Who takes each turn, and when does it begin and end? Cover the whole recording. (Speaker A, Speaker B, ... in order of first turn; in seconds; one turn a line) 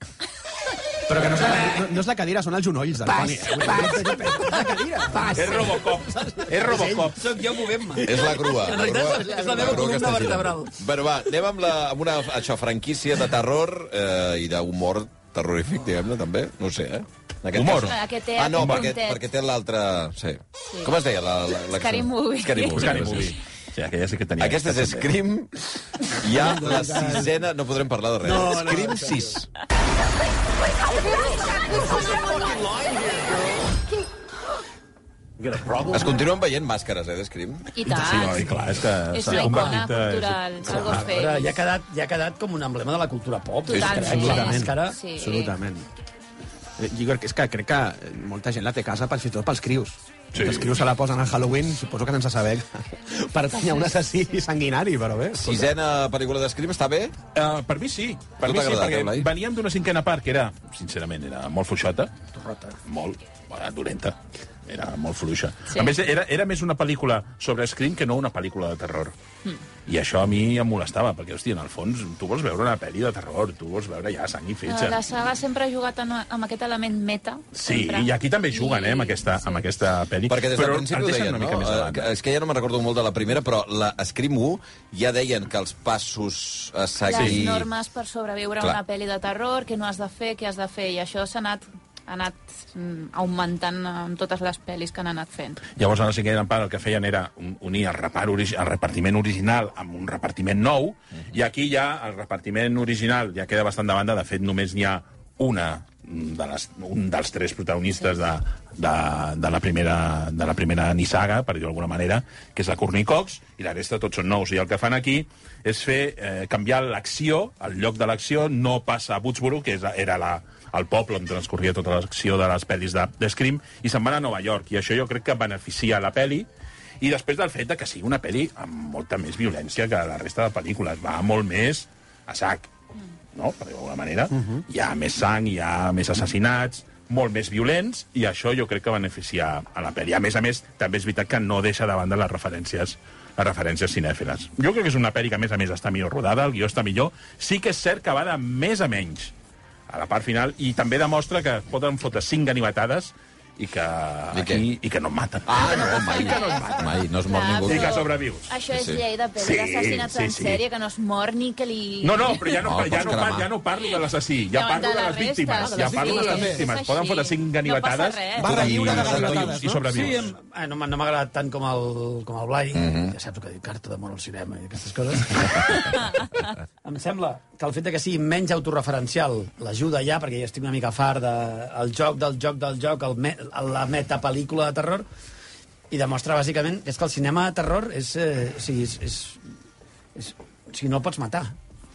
Speaker A: 1.1-5.7
Speaker B: 3.0-10.7
Speaker C: 5.3-7.3
Speaker A: 6.7-7.0
Speaker D: 8.0-23.4
Speaker C: 17.5-18.0
Speaker E: 17.7-19.2
Speaker C: 18.5-18.9
Speaker E: 21.7-23.1
Speaker C: 22.7-25.1
Speaker D: 24.4-29.5
Speaker A: 26.2-27.3
Speaker A: 28.2-29.3
Speaker A: 35.6-35.9
Speaker D: 35.9-37.7
Speaker E: 37.7-38.5
Speaker C: 37.8-41.0
Speaker E: 39.1-41.5
Speaker B: 39.3-39.8
Speaker B: 40.7-45.0
Speaker E: 43.7-45.5
Speaker D: 43.7-44.1
Speaker A: 43.8-45.8
Speaker A: 46.8-55.7
Speaker C: 50.3-50.8
Speaker D: 55.4-57.1
Speaker C: 57.3-62.1
Speaker D: 58.4-59.3
Speaker C: 62.9-69.1
Speaker C: 69.8-75.0
Speaker E: 74.7-79.6
Speaker C: 77.5-82.1
Speaker D: 80.3-87.7
Speaker E: 87.1-95.6
Speaker C: 87.1-87.4
Speaker C: 95.7-126.5
Speaker C: 127.0-132.7
Speaker C: 133.3-149.3
Speaker C: 149.9-156.8
Speaker D: 154.3-154.6
Speaker D: 155.4-158.0
Speaker E: 155.6-156.6
Speaker E: 157.2-162.7
Speaker C: 157.6-158.5
Speaker D: 158.7-159.0
Speaker C: 159.4-160.6
Speaker C: 162.0-170.3
Speaker D: 162.6-163.5
Speaker E: 164.5-168.7
Speaker A: 168.3-170.0
Speaker D: 168.5-169.6
Speaker B: 169.9-176.0
Speaker D: 172.7-173.1
Speaker B: 176.8-185.1
Speaker B: 185.9-189.4
Speaker B: 190.1-191.5